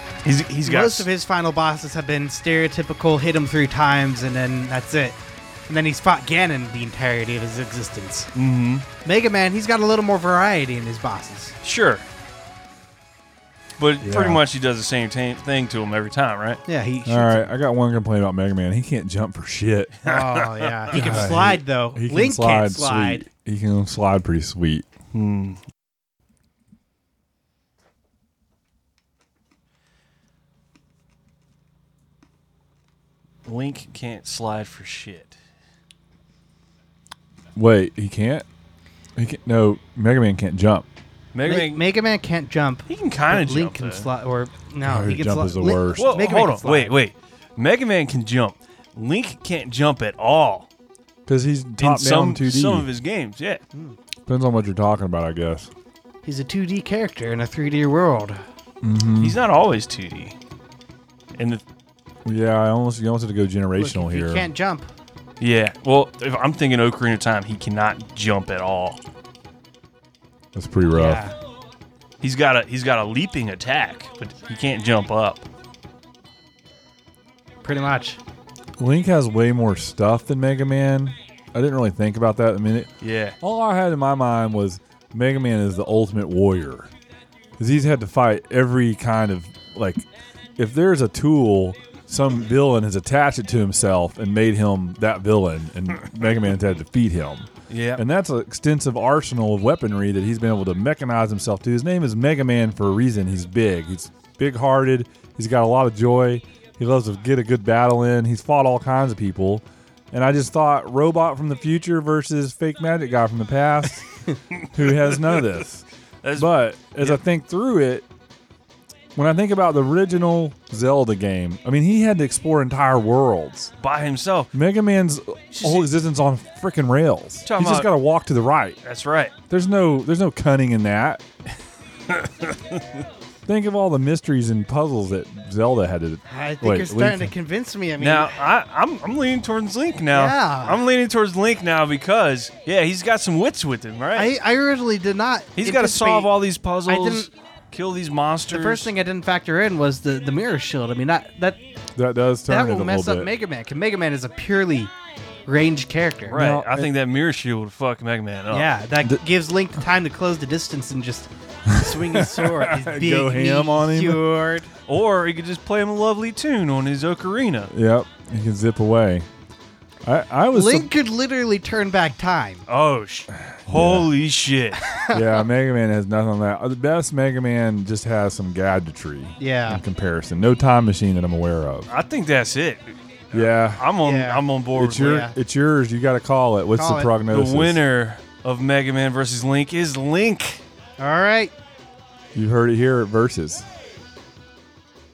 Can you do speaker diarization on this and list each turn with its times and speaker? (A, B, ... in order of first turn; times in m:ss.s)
0:00.2-0:01.1 A
0:00.6-0:08.3 B
0:08.4-0:08.9 A
0:09.0-0:11.6 B
0:11.6-0:12.0 A
0:13.8-0:16.6 A
0:14.0-0:14.4 C
0:16.7-0:17.5 B
0:17.1-0:20.0 C
0:20.0-0:21.3 A
0:20.0-0:23.2 B
0:20.9-0:24.9 C
0:25.1-0:25.6 A
0:33.5-0:35.4 A
0:37.6-0:38.5 C
0:39.2-0:40.9 C
0:41.3-0:41.8 A
0:41.4-0:47.0 B
0:42.9-0:44.1 A
0:44.8-0:46.3 C
0:46.0-0:50.7 A
0:51.3-0:52.9 C
0:51.8-0:53.6 A
0:54.3-0:55.7 C
0:56.2-0:58.4 B
0:58.8-0:59.4 C
0:59.2-1:00.4 A
1:01.4-1:01.6 A
1:02.2-1:04.5 C
1:03.8-1:04.9 B
1:05.4-1:09.0 A
1:10.5-1:11.2 C
1:10.9-1:11.3 B
1:12.2-1:15.4 A
1:17.6-1:18.2 B
1:18.8-1:26.9 C
1:23.0-1:23.4 A
1:27.6-1:30.1 C
1:30.6-1:54.1 C
1:37.7-1:38.0 A
1:54.7-1:55.8 C
1:56.2-1:57.2 A
1:56.4-1:58.1 C
1:59.2-2:03.7 C
2:03.8-2:04.5 A
2:04.5-2:08.8 C
2:05.5-2:05.9 A
2:07.4-2:07.9 A
2:08.8-2:09.3 A
2:09.5-2:11.2 C
2:12.1-2:12.8 A
2:13.5-2:17.3 C
2:16.3-2:18.4 B
2:18.0-2:24.3 A
2:20.1-2:20.8 B
2:24.2-2:26.3 B
2:25.6-2:28.9 A
2:26.9-2:27.3 B
2:28.5-2:31.6 B
2:32.0-2:33.3 C
2:32.5-2:34.9 B
2:35.5-2:36.4 B
2:36.3-2:38.7 A
2:36.3-2:36.9 C
2:38.5-2:44.7 B
2:41.8-2:44.3 C
2:44.9-2:47.7 A
2:47.7-2:49.3 C
2:50.0-2:50.9 C
2:50.5-2:52.6 B
2:52.7-2:54.8 A
2:53.5-2:54.1 C
2:54.8-2:55.4 B
2:55.1-3:01.9 C
2:59.4-2:59.8 B
3:01.9-3:05.2 A
3:03.3-3:03.9 C
3:04.0-3:05.4 B
3:04.7-3:07.8 C
3:06.7-3:07.1 B
3:07.3-3:10.6 A
3:11.0-3:11.5 B
3:12.3-3:13.7 C